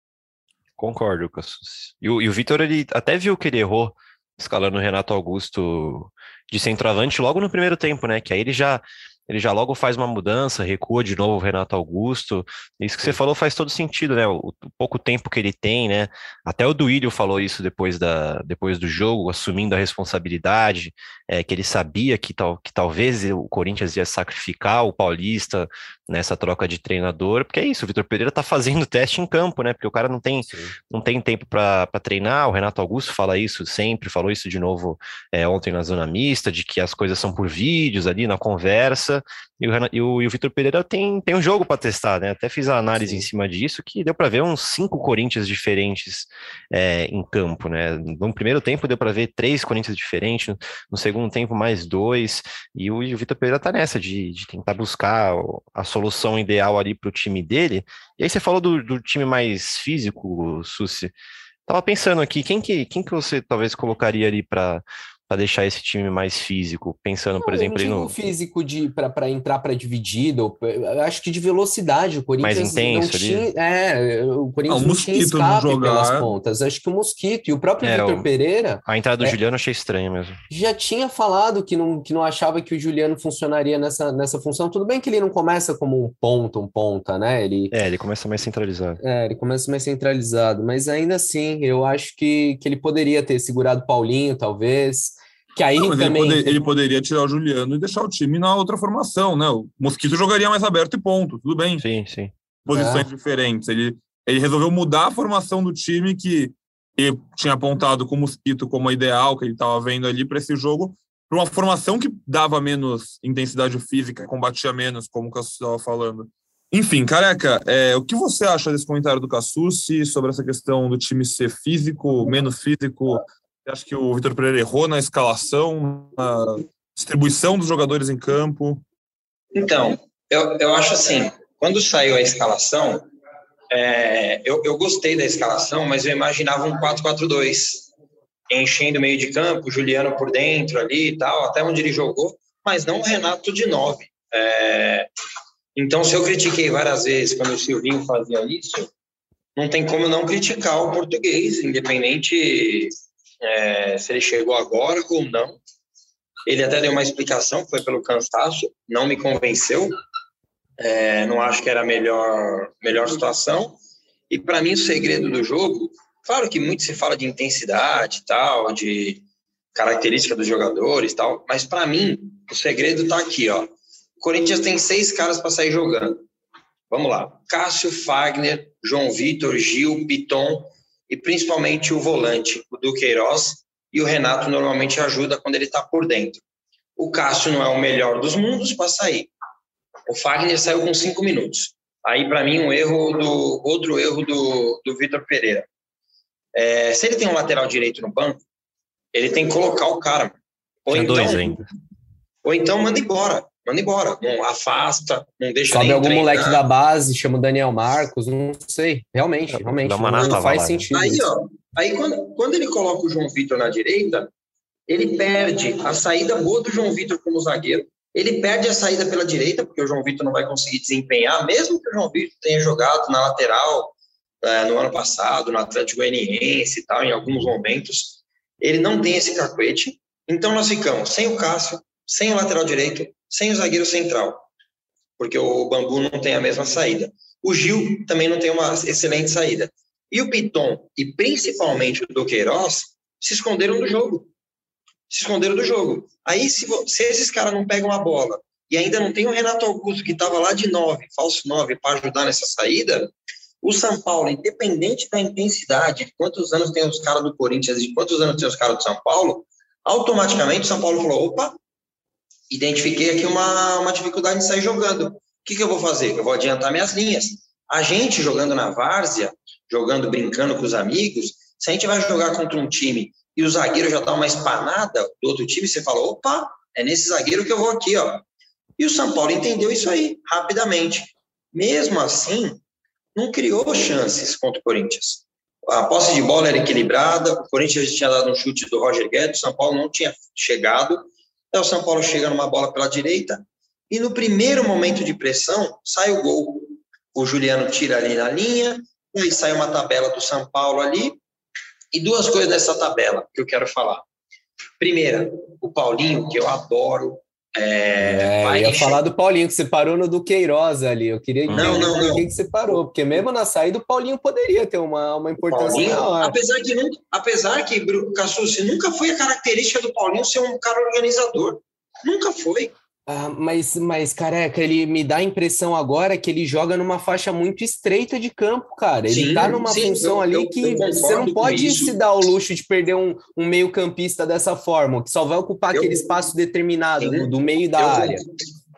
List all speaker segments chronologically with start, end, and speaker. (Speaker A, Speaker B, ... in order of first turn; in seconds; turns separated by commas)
Speaker A: 0.8-61.1, Speaker B: 30.4-30.7, Speaker B: 43.0-43.3, Speaker A: 61.7-68.2, Speaker B: 67.4-79.3, Speaker A: 72.4-73.5, Speaker C: 74.7-76.3, Speaker A: 77.8-78.2, Speaker A: 78.8-80.4, Speaker B: 80.5-87.7, Speaker A: 87.7-89.0, Speaker B: 89.0-96.6, Speaker C: 95.8-101.8, Speaker A: 101.8-102.3, Speaker C: 102.6-128.8, Speaker B: 102.7-103.1, Speaker D: 129.5-133.1, Speaker D: 133.7-137.9, Speaker D: 138.5-145.1, Speaker D: 145.7-148.9, Speaker D: 149.6-155.6, Speaker D: 156.4-159.9, Speaker D: 160.8-163.8, Speaker D: 164.3-169.2, Speaker D: 169.7-176.2, Speaker D: 176.9-186.4, Speaker D: 187.0-189.3, Speaker D: 190.1-195.7, Speaker D: 196.5-198.4, Speaker D: 199.1-201.6, Speaker A: 200.9-201.6, Speaker D: 202.4-206.6, Speaker B: 205.7-211.2, Speaker A: 209.5-211.1, Speaker D: 210.2-214.3, Speaker D: 214.9-234.5, Speaker D: 235.2-244.3, Speaker D: 245.1-261.5, Speaker D: 262.5-278.2, Speaker D: 278.8-282.6, Speaker D: 283.1-301.2, Speaker D: 301.9-304.0, Speaker D: 304.8-309.0, Speaker B: 308.0-316.4, Speaker A: 311.5-311.9, Speaker D: 311.5-312.3, Speaker D: 315.5-322.7, Speaker B: 323.1-338.2, Speaker D: 329.1-332.0, Speaker D: 335.7-336.0, Speaker D: 337.0-338.3